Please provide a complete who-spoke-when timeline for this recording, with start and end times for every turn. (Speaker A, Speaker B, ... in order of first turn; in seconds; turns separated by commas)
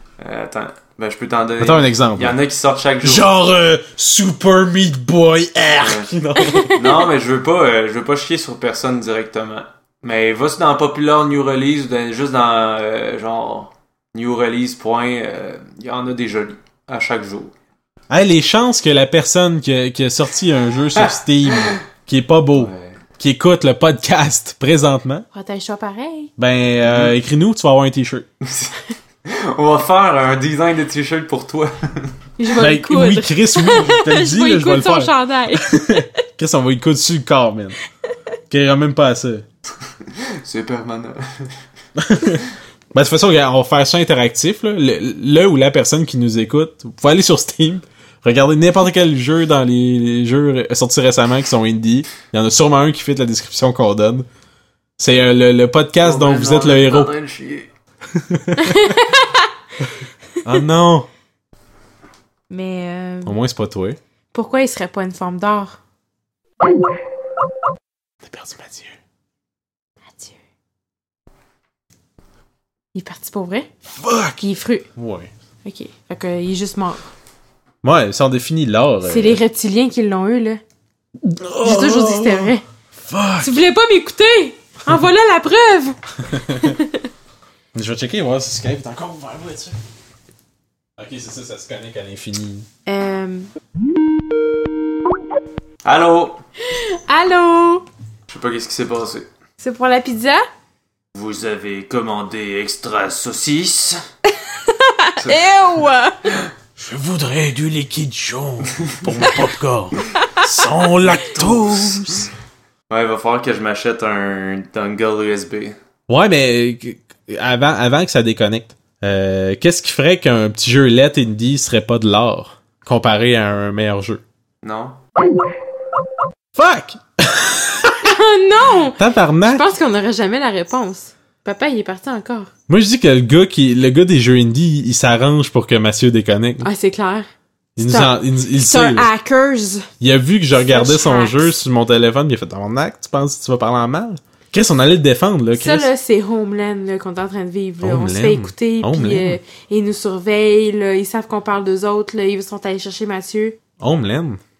Speaker A: 0.2-3.3, Speaker B: 1.6-2.4, Speaker B: 3.0-6.8, Speaker A: 5.8-6.1, Speaker C: 6.4-6.8, Speaker A: 6.7-17.5, Speaker B: 18.1-25.3, Speaker A: 21.0-21.8, Speaker A: 22.6-22.9, Speaker C: 25.3-26.3, Speaker B: 26.4-28.3, Speaker A: 26.9-27.1, Speaker A: 28.4-28.7, Speaker A: 29.3-32.1, Speaker C: 32.4-36.1, Speaker B: 32.6-37.8, Speaker B: 38.5-39.5, Speaker A: 40.2-41.5, Speaker B: 42.0-54.3, Speaker B: 55.0-57.1, Speaker A: 56.0-57.7, Speaker B: 58.1-58.9, Speaker C: 58.6-59.5, Speaker B: 60.4-61.1, Speaker C: 62.5-63.4, Speaker B: 63.2-64.0, Speaker C: 64.3-65.8, Speaker B: 68.2-69.0, Speaker C: 70.1-70.4, Speaker C: 72.9-73.7, Speaker B: 74.0-74.4, Speaker C: 74.4-74.9, Speaker B: 75.0-75.3, Speaker C: 75.7-77.0, Speaker B: 77.8-79.4, Speaker C: 79.0-80.6, Speaker B: 81.2-82.5, Speaker C: 81.6-82.6, Speaker B: 83.1-83.6, Speaker C: 83.4-87.1, Speaker B: 86.3-86.8, Speaker B: 87.7-89.8, Speaker B: 91.0-92.7, Speaker C: 92.9-93.5, Speaker A: 95.8-96.4, Speaker C: 96.7-97.8, Speaker A: 98.3-99.3, Speaker C: 99.6-100.4, Speaker A: 101.2-104.0, Speaker C: 104.5-106.3, Speaker A: 105.2-105.4, Speaker B: 106.8-112.3, Speaker A: 111.4-112.1, Speaker A: 112.9-115.8, Speaker B: 116.1-124.2, Speaker A: 124.6-125.0, Speaker B: 126.5-128.1, Speaker C: 128.1-132.5, Speaker B: 129.0-129.6, Speaker B: 132.7-136.7, Speaker C: 136.6-137.3, Speaker B: 137.8-139.1, Speaker C: 137.8-139.9, Speaker B: 140.0-145.9, Speaker C: 140.6-141.5, Speaker C: 145.5-153.6, Speaker B: 147.8-149.4, Speaker B: 153.8-154.4